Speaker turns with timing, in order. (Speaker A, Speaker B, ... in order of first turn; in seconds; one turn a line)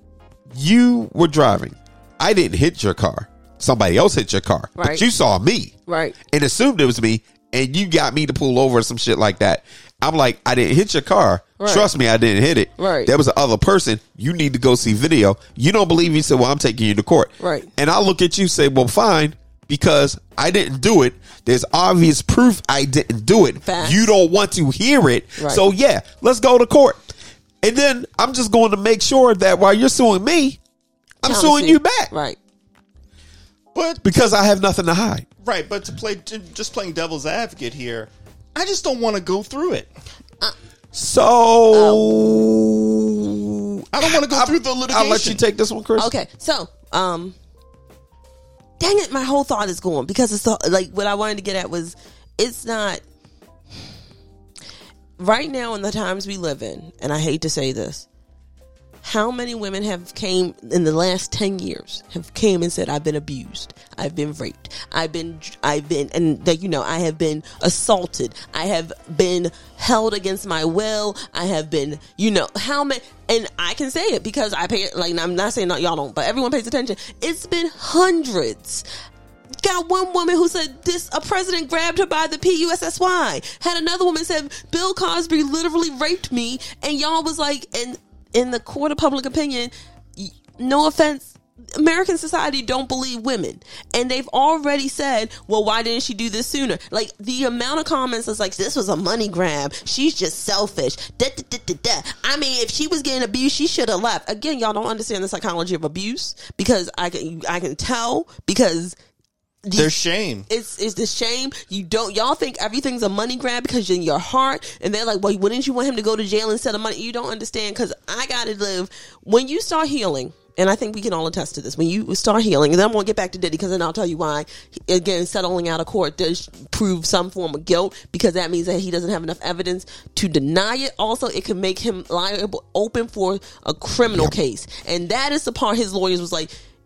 Speaker A: 0.5-5.7
Speaker B: 4.8-5.1
Speaker B: 5.9-6.2
Speaker A: 6.2-27.0
Speaker B: 11.6-11.9
Speaker B: 12.8-13.1
Speaker B: 17.4-17.7
Speaker B: 23.6-24.1
Speaker B: 25.4-25.6
Speaker A: 27.6-30.6
Speaker A: 31.2-32.1
Speaker B: 31.2-32.4
Speaker C: 33.7-34.2
Speaker A: 34.0-35.3
Speaker C: 35.4-39.9
Speaker A: 40.9-46.1
Speaker B: 41.7-42.5
Speaker C: 43.9-45.4
Speaker B: 46.0-47.4
Speaker B: 48.8-53.0
Speaker B: 55.2-58.1
Speaker B: 59.0-78.9
Speaker B: 79.6-109.0
Speaker B: 109.7-109.9
Speaker C: 109.8-110.5
Speaker B: 110.5-136.5
Speaker A: 134.1-134.3